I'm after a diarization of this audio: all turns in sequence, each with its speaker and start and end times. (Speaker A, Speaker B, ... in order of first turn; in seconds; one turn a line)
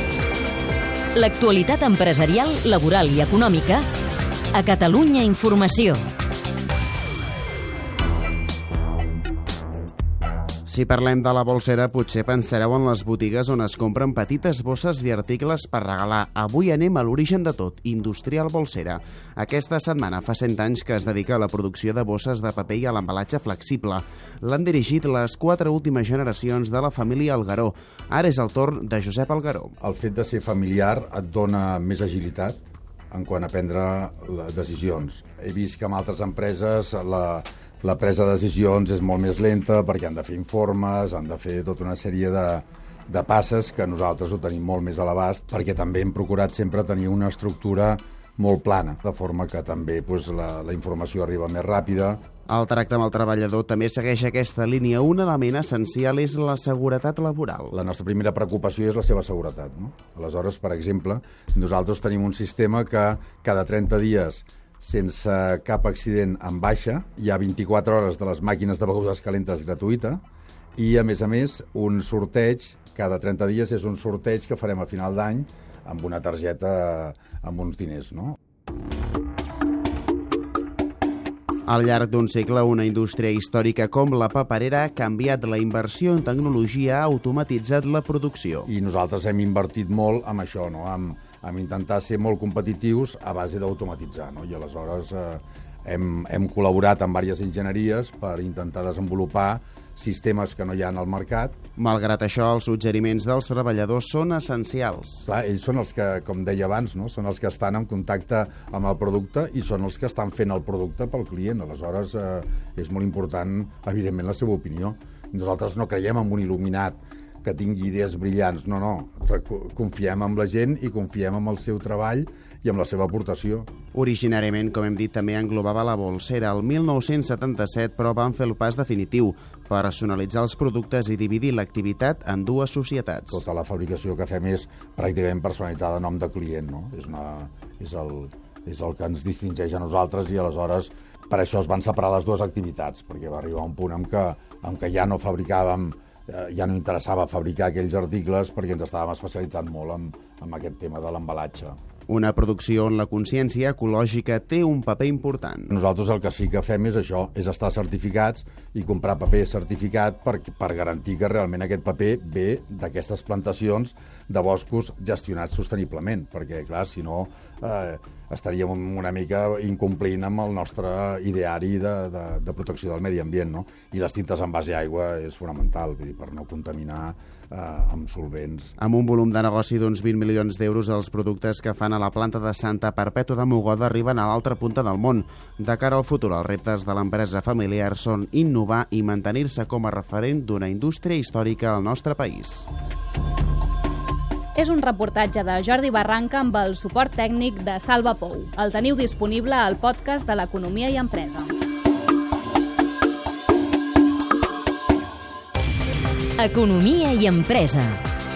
Speaker A: 1.1-3.9
Speaker A: 4.5-6.0
Speaker B: 10.7-29.7
Speaker C: 29.8-32.6
Speaker C: 33.1-52.2
Speaker B: 52.5-57.7
Speaker C: 57.7-70.2
Speaker C: 70.8-78.4
Speaker B: 81.7-88.7
Speaker C: 88.7-101.6
Speaker B: 101.8-105.3
Speaker C: 105.2-123.7
Speaker B: 123.9-133.4
Speaker C: 133.3-151.8
Speaker B: 152.1-155.7
Speaker C: 155.7-178.7
Speaker B: 178.8-192.7
Speaker D: 194.6-201.6
Speaker A: 206.4-208.0